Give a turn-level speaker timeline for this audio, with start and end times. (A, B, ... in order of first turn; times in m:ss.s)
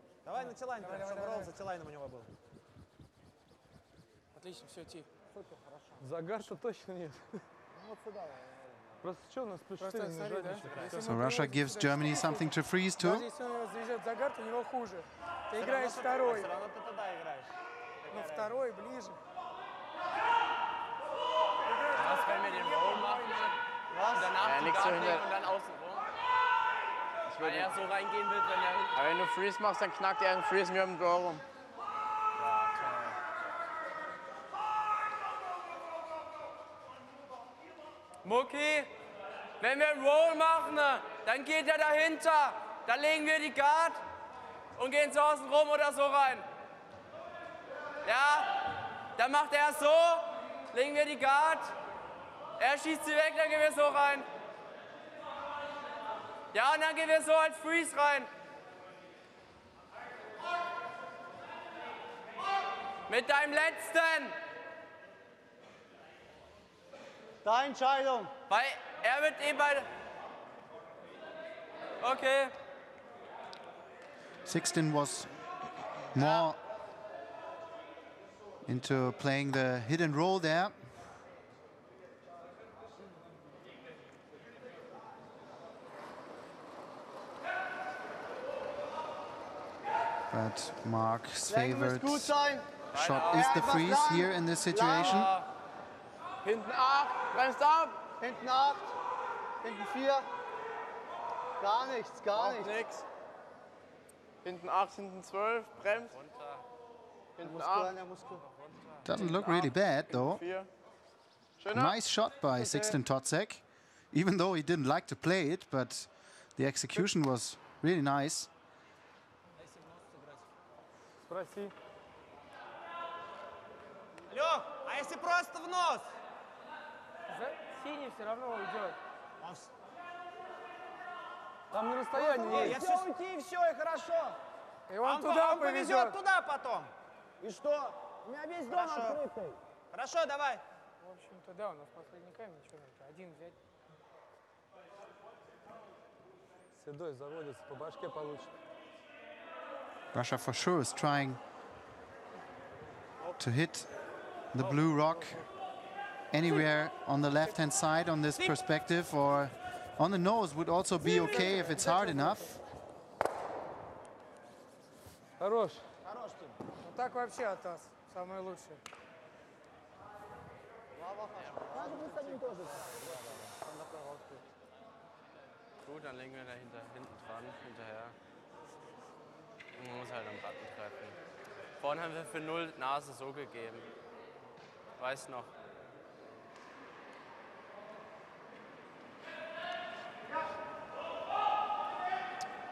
0:00.2-0:02.3 A
0:00.3-0:01.5 B
0:04.3-0:05.1 B
0:05.3-0:06.0 C
0:06.0-0:07.4 D
0:07.7-0:09.0 C
0:09.0-0:11.2 D
0:09.8-0:16.5 B
0:10.6-0:11.1 A
0:11.0-0:13.2 E
0:15.6-0:17.5 A
0:18.0-0:18.6 A
0:18.1-0:19.2 B
0:21.6-0:23.6 B
0:21.9-0:23.6 F
0:23.9-0:24.4 G
0:24.1-0:26.1 F
0:24.4-0:25.3 H
0:27.3-0:27.8 H
0:27.4-0:29.1 F
0:28.9-0:31.4 H
0:32.4-0:33.2 F
0:38.2-0:38.9 F
0:39.6-0:44.0 F
0:44.8-0:46.4 F
0:48.0-0:48.6 F
0:49.2-0:51.7 F
0:52.6-0:54.3 F
0:56.5-0:58.3 F
1:03.1-1:04.4 F
1:07.4-1:08.3 G
1:08.5-1:09.9 F
1:12.0-1:12.5 F
1:14.5-1:15.3 E
1:16.1-1:16.6 E
1:16.1-1:16.4 F
1:18.6-1:20.7 E
1:30.3-1:32.4 E
1:31.5-1:32.7 G
1:32.9-1:33.8 F
1:32.9-1:35.3 E
1:33.2-1:35.3 G
1:34.9-1:35.4 F
1:36.4-1:38.0 H
1:38.2-1:38.9 G
1:39.6-1:40.3 G
1:41.6-1:42.7 G
1:42.3-1:43.0 H
1:44.4-1:46.1 H
1:45.8-1:46.6 F
1:47.4-1:48.0 H
1:47.4-1:48.4 G
1:48.6-1:48.9 F
1:49.0-1:50.4 E
1:49.1-1:50.7 H
1:51.6-1:52.0 H
1:51.7-1:58.5 E
1:52.5-1:52.9 H
1:59.6-2:00.4 C
2:01.3-2:01.7 D
2:04.3-2:06.1 A
2:07.3-2:09.0 B
2:09.4-2:09.7 A
2:11.7-2:12.8 D
2:12.1-2:14.4 C
2:12.4-2:13.1 A
2:14.9-2:16.2 B
2:15.0-2:16.9 A
2:17.4-2:19.6 C
2:18.7-2:19.2 A
2:19.9-2:20.6 A
2:21.0-2:23.6 B
2:26.7-2:28.5 D
2:30.1-2:31.4 E
2:33.4-2:33.9 E
2:34.5-2:35.4 E
2:34.6-2:35.2 A
2:36.3-2:42.6 E
2:41.0-2:42.6 B
2:45.4-2:45.8 D
2:46.0-2:46.6 C
2:46.8-2:48.8 B
2:50.9-2:54.4 G
2:51.7-2:53.5 C
2:55.8-2:58.1 F
2:59.8-3:01.2 F
3:01.8-3:03.9 F
3:05.0-3:05.5 F